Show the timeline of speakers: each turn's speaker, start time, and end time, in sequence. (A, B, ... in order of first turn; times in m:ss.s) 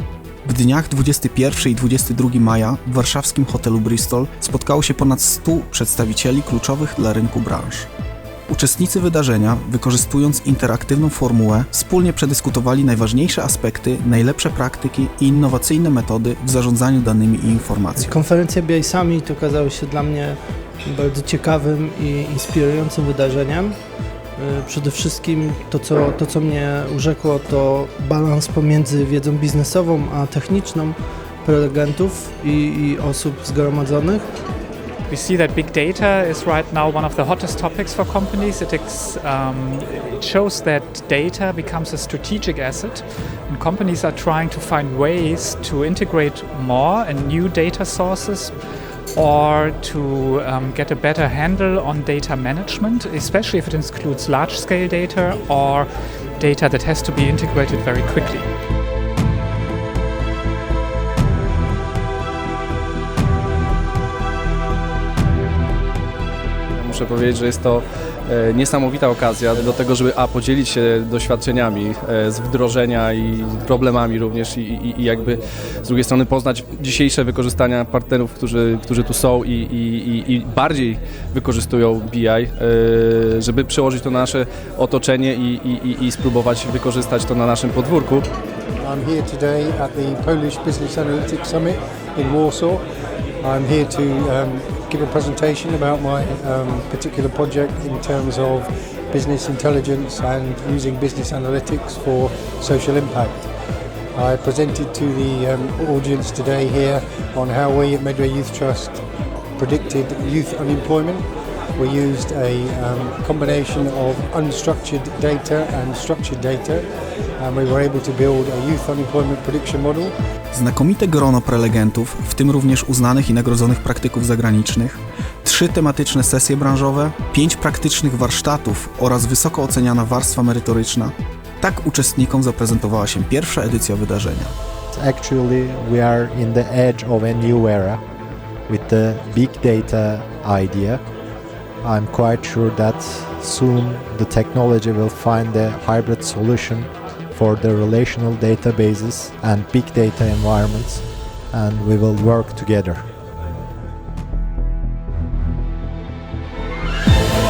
0:00.4-0:07.9 A
0:08.5-0:18.0 A
0:18.0-0:34.4 B
0:35.1-0:48.6 C
0:49.1-0:58.5 C
1:06.8-1:28.2 D
1:28.8-1:32.8 E
1:33.4-1:43.5 E
1:44.1-1:49.0 E
1:49.6-1:56.8 E
1:57.4-2:00.1 E
2:00.5-2:14.5 A
2:14.9-2:18.0 F
2:18.7-2:21.0 F
2:21.8-2:33.0 F